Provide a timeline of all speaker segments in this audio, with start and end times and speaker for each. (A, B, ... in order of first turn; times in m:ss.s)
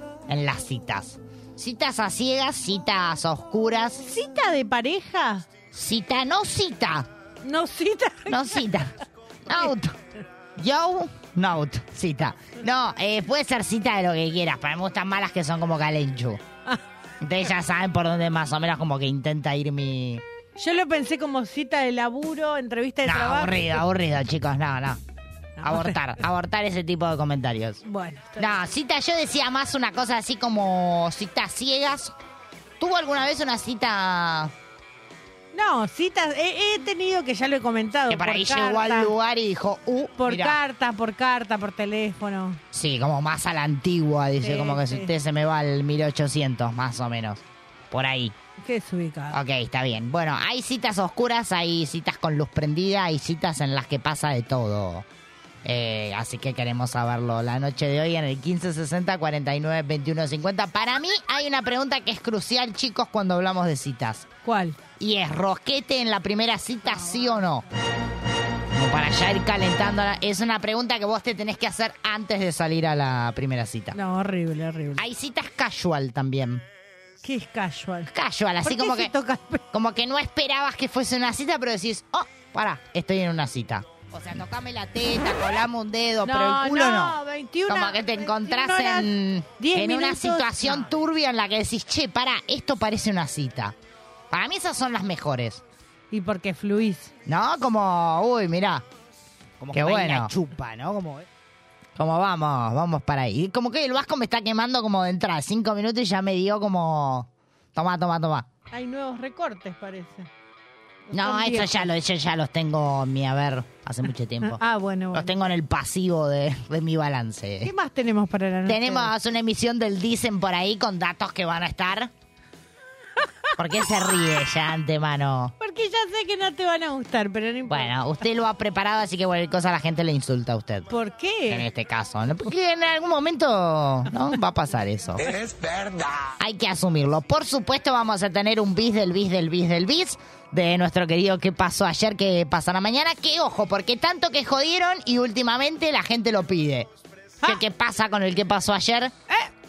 0:00.3-0:04.1 A
0:04.0-0:05.5 B
0:05.7-0:07.1 A
0:07.4-0:08.8 B
0:08.3-0:08.9 A
0:09.5-0:10.0 A
0:10.6-0:16.4 A
0:17.2-0:20.2 A
0:20.6-0:23.8 B
0:23.0-0:25.0 A
0:25.6-0:26.0 B
0:25.6-0:27.8 A
0:27.8-0:28.6 B
0:28.4-0:32.2 A
0:32.8-0:34.5 A
0:35.5-0:39.1 B
0:38.1-0:40.6 A
0:40.2-0:42.6 B
0:42.7-0:48.4 A
0:44.4-0:45.1 B
0:48.6-0:49.4 B
0:49.3-0:55.1 A
0:55.6-1:04.3 A
1:04.4-1:04.8 B
1:05.0-1:07.6 A
1:08.7-1:14.0 A
1:13.9-1:15.0 B
1:15.0-1:16.6 A
1:17.2-1:18.1 B
1:18.1-1:19.1 A
1:18.6-1:19.6 B
1:19.7-1:33.8 A
1:26.2-1:30.9 B
1:34.3-1:35.6 A
1:36.1-1:37.1 B
1:37.3-1:38.8 A
1:39.6-1:41.3 A
1:39.7-1:40.4 B
1:42.0-1:48.5 A
1:48.7-1:50.3 B
1:51.1-1:51.9 B
1:51.1-1:54.6 A
1:54.4-1:55.4 B
1:55.1-1:57.7 A
1:57.6-1:59.1 B
1:58.7-2:02.1 A
2:03.6-2:05.5 A
2:05.6-2:07.9 B
2:07.7-2:10.9 A
2:10.9-2:11.7 B
2:11.5-2:15.3 A
2:16.4-2:26.9 A
2:27.4-2:29.1 A